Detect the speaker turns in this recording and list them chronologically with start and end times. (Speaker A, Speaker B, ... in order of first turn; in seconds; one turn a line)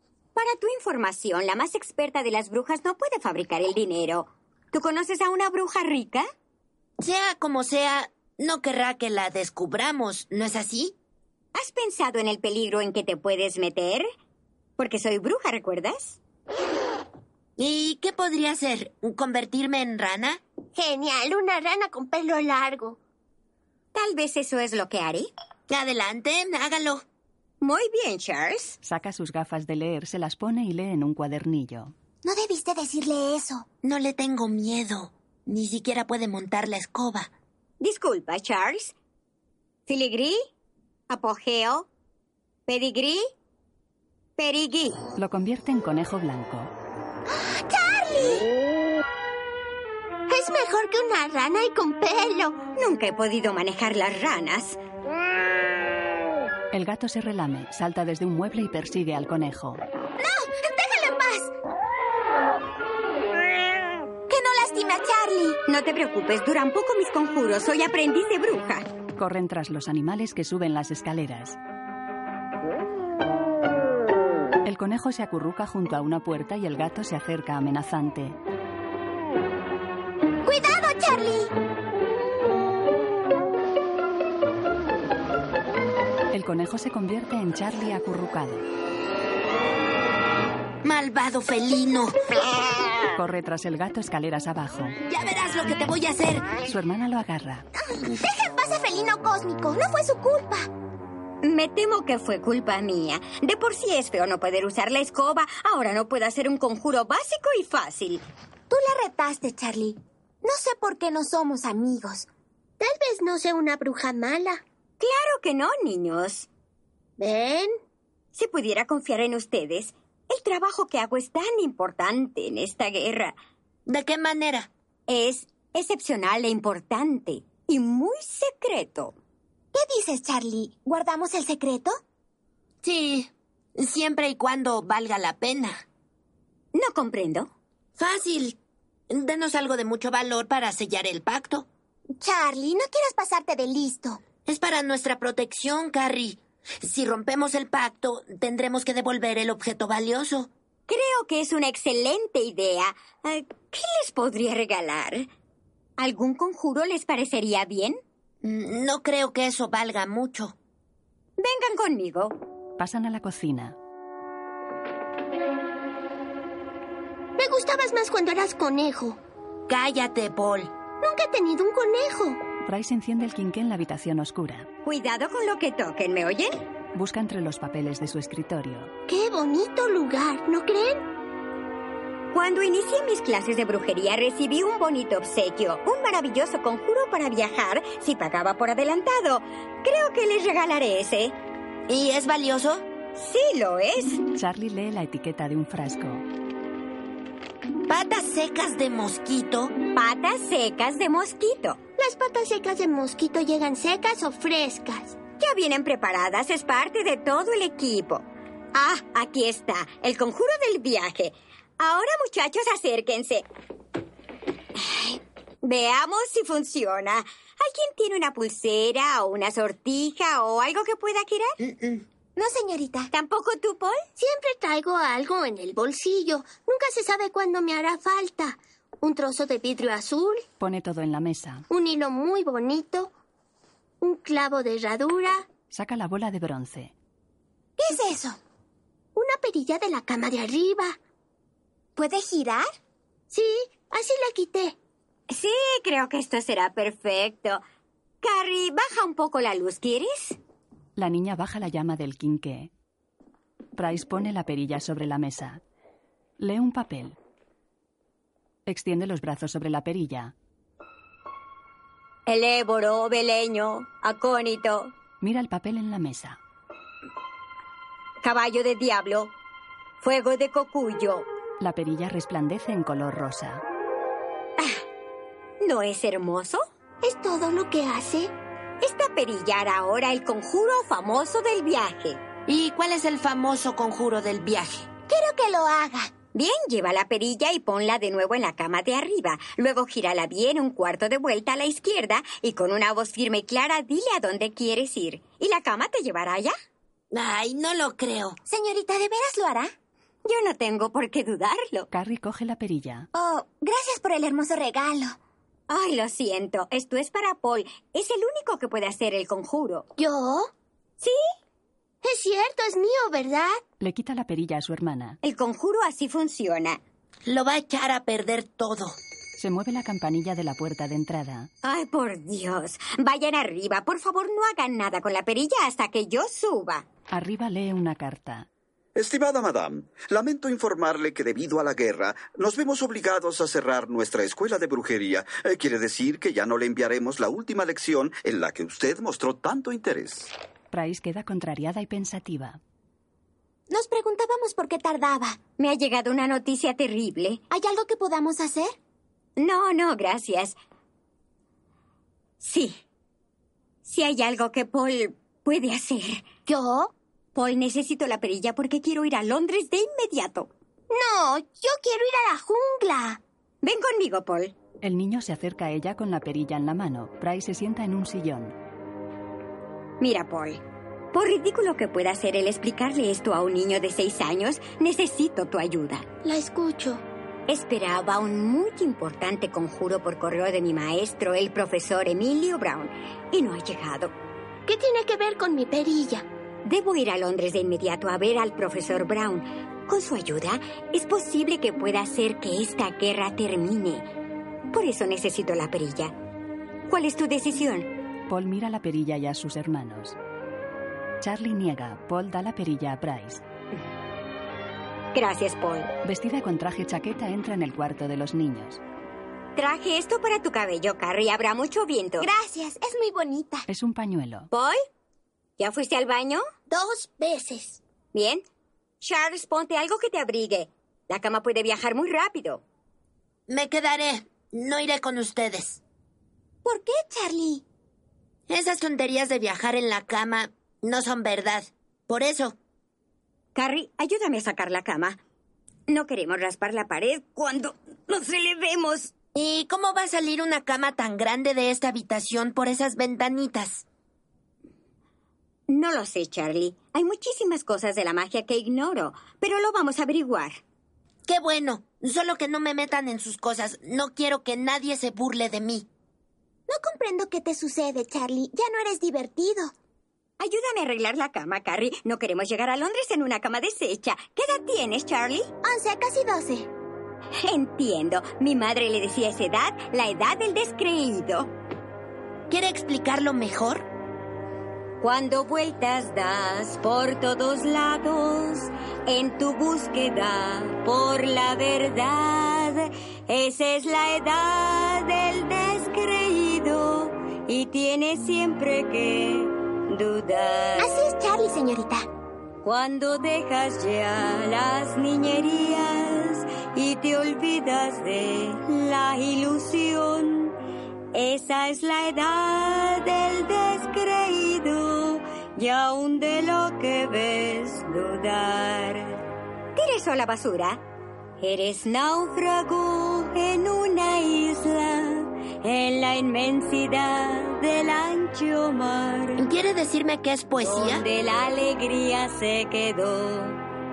Speaker A: 0.3-6.2
Speaker B: 7.0-10.9
Speaker A: 11.5-14.1
Speaker A: 14.8-16.2
Speaker B: 17.6-20.4
Speaker C: 20.7-23.0
Speaker A: 23.9-25.3
Speaker B: 25.7-27.0
Speaker A: 27.6-28.8
Speaker D: 28.8-31.9
Speaker C: 32.2-33.7
Speaker B: 33.8-37.3
Speaker A: 37.8-38.9
Speaker A: 39.9-40.5
Speaker A: 41.1-41.9
Speaker A: 42.7-43.3
Speaker A: 44.4-45.0
Speaker D: 45.1-46.7
Speaker C: 47.3-48.5
Speaker C: 50.3-52.6
Speaker A: 52.8-54.8
Speaker D: 56.7-59.8
Speaker C: 60.2-61.5
Speaker C: 64.3-65.6
Speaker A: 65.7-68.9
Speaker D: 69.2-71.6
Speaker D: 74.6-78.4
Speaker C: 80.4-81.5
Speaker D: 86.3-88.6
Speaker B: 90.8-92.1
Speaker D: 93.1-95.0
Speaker B: 95.0-96.5
Speaker D: 96.7-97.7
Speaker C: 97.9-100.7
Speaker A: 101.4-108.2
Speaker C: 108.7-112.3
Speaker C: 112.8-114.6
Speaker A: 115.0-116.5
Speaker C: 117.2-117.7
Speaker A: 118.3-123.3
Speaker B: 123.9-124.7
Speaker A: 125.1-129.1
Speaker C: 129.7-131.9
Speaker B: 132.8-135.8
Speaker A: 136.7-137.5
Speaker B: 138.0-138.6
Speaker B: 139.1-141.7
Speaker C: 142.2-144.2
Speaker B: 144.4-150.5
Speaker A: 150.9-155.3
Speaker A: 156.0-158.0
Speaker B: 158.4-160.5
Speaker A: 161.4-162.3
Speaker D: 162.8-163.8
Speaker C: 167.4-169.2
Speaker B: 169.7-170.7
Speaker C: 171.0-172.4
Speaker D: 172.6-174.7
Speaker A: 174.8-176.6
Speaker D: 176.9-178.9
Speaker C: 179.1-181.0
Speaker A: 182.3-191.3
Speaker B: 191.9-192.8
Speaker A: 193.2-194.2
Speaker D: 194.3-196.2
Speaker B: 197.9-199.7
Speaker A: 199.9-201.8
Speaker C: 202.0-205.2
Speaker A: 205.4-213.4
Speaker A: 214.8-221.6
Speaker B: 221.6-222.0
Speaker C: 222.3-223.1
Speaker A: 223.1-224.1
Speaker C: 224.2-230.4
Speaker D: 230.6-231.7
Speaker C: 231.7-233.1
Speaker C: 234.0-235.4
Speaker D: 235.7-236.9
Speaker C: 237.8-238.4
Speaker C: 239.1-241.0
Speaker C: 241.9-242.7
Speaker C: 243.3-244.8
Speaker A: 245.3-247.6
Speaker A: 248.2-250.4
Speaker D: 250.9-252.7
Speaker D: 253.8-255.6
Speaker D: 256.4-257.2
Speaker D: 258.6-260.3
Speaker A: 262.2-264.9
Speaker D: 265.2-266.4
Speaker A: 268.2-269.3
Speaker A: 270.0-271.3
Speaker D: 271.6-273.6
Speaker A: 275.6-276.6
Speaker C: 277.0-278.3
Speaker A: 278.8-282.2
Speaker B: 282.5-284.9
Speaker C: 285.1-286.2
Speaker A: 286.3-296.5
Speaker B: 297.1-298.4
Speaker C: 298.4-299.7
Speaker A: 300.2-301.9
Speaker D: 301.9-303.1
Speaker C: 303.1-305.2
Speaker A: 305.7-309.9
Speaker C: 310.0-310.5
Speaker C: 312.0-313.6
Speaker D: 313.8-315.2
Speaker A: 315.2-316.8
Speaker B: 317.2-318.9
Speaker D: 319.4-321.5
Speaker A: 321.6-326.9
Speaker D: 327.1-328.5
Speaker E: 328.9-340.3
Speaker D: 340.7-342.6
Speaker C: 343.7-345.4
Speaker A: 345.6-347.4
Speaker C: 347.5-348.8
Speaker A: 349.4-350.6
Speaker A: 352.4-352.8
Speaker A: 353.8-356.3
Speaker C: 356.4-356.9
Speaker A: 357.3-360.5
Speaker C: 360.9-363.2
Speaker A: 363.6-364.5
Speaker D: 364.8-368.6
Speaker A: 370.0-370.6
Speaker A: 371.1-376.1
Speaker C: 376.2-377.0
Speaker A: 377.5-384.1
Speaker C: 384.7-386.2
Speaker A: 386.6-394.1
Speaker A: 394.7-396.1
Speaker A: 396.9-397.9
Speaker D: 398.3-400.2
Speaker D: 401.2-403.4
Speaker A: 405.1-405.9
Speaker D: 406.0-408.8
Speaker A: 409.6-412.3
Speaker C: 412.2-413.6
Speaker D: 413.7-414.5
Speaker A: 414.5-414.8
Speaker A: 415.6-416.4
Speaker C: 416.7-417.8
Speaker A: 418.1-418.4
Speaker A: 419.0-422.6
Speaker B: 423.5-425.8
Speaker C: 426.6-427.6
Speaker B: 428.5-432.5
Speaker A: 433.5-435.2
Speaker A: 435.9-439.1
Speaker B: 439.3-443.8
Speaker A: 445.7-450.6
Speaker B: 451.3-455.9
Speaker C: 456.7-459.7
Speaker A: 460.4-465.5
Speaker C: 465.6-466.7
Speaker A: 467.4-471.5
Speaker B: 472.5-473.9
Speaker A: 475.0-490.9
Speaker C: 490.8-492.1
Speaker A: 492.6-500.6
Speaker A: 501.1-509.2
Speaker A: 509.7-510.8
Speaker A: 511.4-519.4
Speaker B: 519.4-521.0
Speaker A: 520.6-523.6